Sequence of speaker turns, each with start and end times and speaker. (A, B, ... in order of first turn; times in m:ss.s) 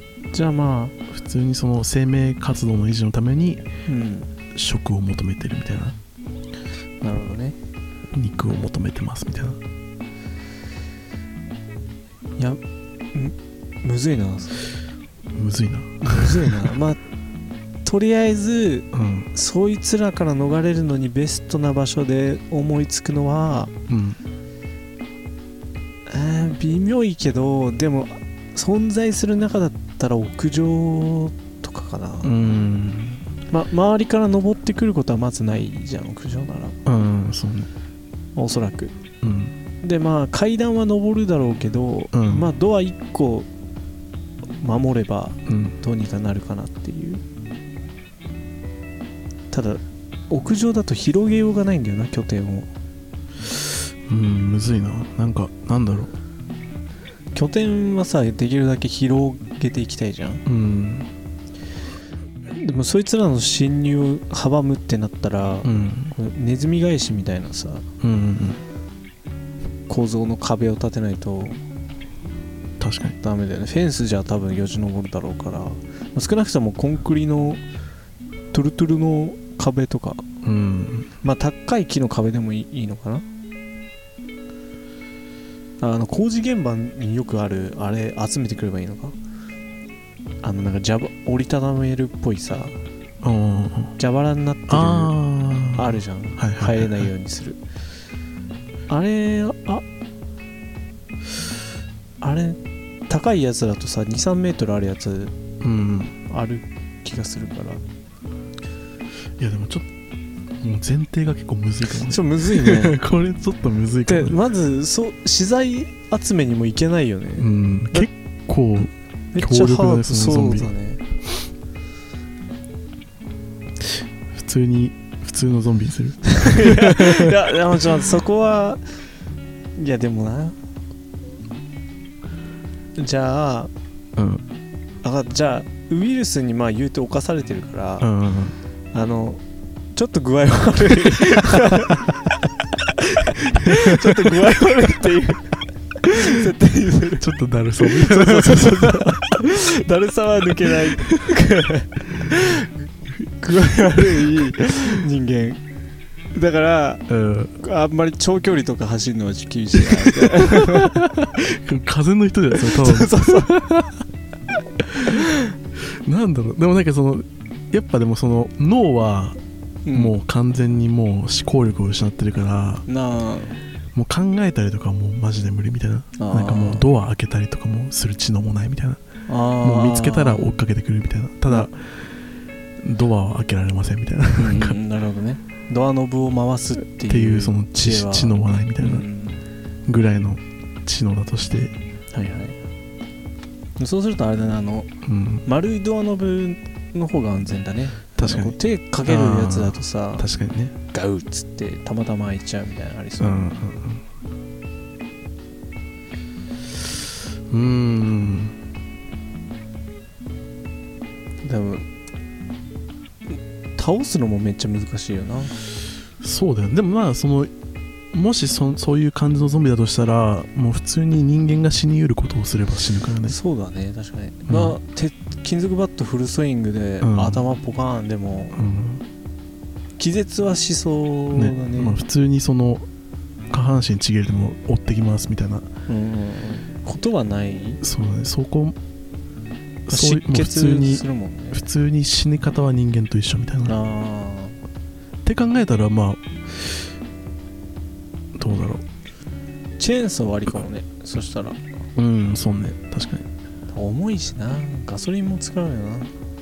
0:00.3-0:01.0 A
0:01.1-0:03.7 B
0:03.9-0:04.3 A
0:04.5-0:06.0 B
0:07.0-0:07.6 A
0:08.1-0:09.6 B
0:13.1-0:14.6 A
0:15.3-0:16.7 B
0:16.0-0:17.0 A
0:17.8-0:23.7 A
0:18.9-0:19.3 B
0:23.9-0:24.2 B
0:26.1-0:32.3 A
0:32.2-0:33.2 B
0:33.5-0:36.8 A
0:36.9-0:37.7 B
0:38.4-0:39.0 A
0:39.2-0:39.5 B
0:39.8-0:43.5 A
0:42.1-0:42.5 B
0:44.6-0:47.2 A
0:45.5-0:45.8 B
0:49.5-0:52.7 A
0:54.1-0:56.1 B
0:57.4-1:00.4 A
1:00.5-1:01.1 B
1:02.5-1:07.9 A
1:05.6-1:06.2 B
1:08.0-1:08.6 B
1:09.9-1:11.6 A
1:12.8-1:13.2 B
1:13.2-1:17.6 A
1:18.5-1:20.2 A
1:20.4-1:21.1 B
1:21.2-1:23.2 A
1:25.8-1:29.2 A
1:30.4-1:32.8 A
1:33.2-1:34.0 B
1:34.0-1:35.2 A
1:34.7-1:37.1 B
1:35.8-1:37.6 A
1:38.9-1:39.8 A
1:42.2-1:45.4 A
1:45.6-1:46.2 B
1:46.3-1:47.8 A
1:49.4-1:49.9 B
1:50.6-1:54.4 B
1:52.0-1:53.0 A
1:54.1-1:58.1 A
1:57.4-2:00.7 B
1:59.3-2:01.0 A
2:04.3-2:07.4 B
2:06.3-2:08.8 A
2:09.8-2:10.6 A
2:13.0-2:13.7 A
2:14.2-2:14.4 B
2:15.0-2:18.1 A
2:18.0-2:18.6 B
2:18.9-2:19.4 A
2:19.9-2:22.1 A
2:23.1-2:32.7 A
2:23.8-2:24.2 B
2:27.2-2:29.4 B
2:33.4-2:35.6 A
2:34.0-2:34.4 B
2:36.3-2:37.0 A
2:37.1-2:37.5 B
2:37.6-2:41.0 A
2:40.1-2:44.0 B
2:42.5-2:43.5 A
2:44.8-2:49.4 B
2:49.8-2:50.2 A
2:49.9-2:52.9 B
2:52.9-2:53.6 A
2:53.9-2:59.0 B
2:56.2-2:56.9 A
2:59.3-3:00.5 A
2:59.6-3:01.9 B
3:02.8-3:04.8 B
3:04.4-3:09.4 A
3:07.1-3:09.1 B
3:09.9-3:11.7 B
3:12.1-3:12.6 A
3:13.8-3:14.9 A
3:15.0-3:15.4 B
3:15.4-3:20.3 A
3:18.2-3:20.8 B
3:20.9-3:23.4 A
3:23.2-3:24.0 B
3:27.5-3:28.6 B
3:31.4-3:31.8 A
3:33.3-3:35.6 A
3:36.2-3:37.5 B
3:38.1-3:43.4 B
3:43.2-3:48.6 A
3:44.5-3:44.8 B
3:47.0-3:47.4 B
3:48.5-3:49.0 B
3:50.0-3:52.0 A
3:51.3-3:52.9 B
3:53.5-3:55.7 B
3:55.9-3:57.8 A
3:57.8-3:58.8 B
3:59.9-4:03.8 B
3:59.9-4:01.7 A
4:03.7-4:04.6 A
4:05.2-4:06.9 B
4:08.4-4:08.8 B
4:09.8-4:11.6 A
4:12.0-4:13.3 B
4:13.7-4:16.1 A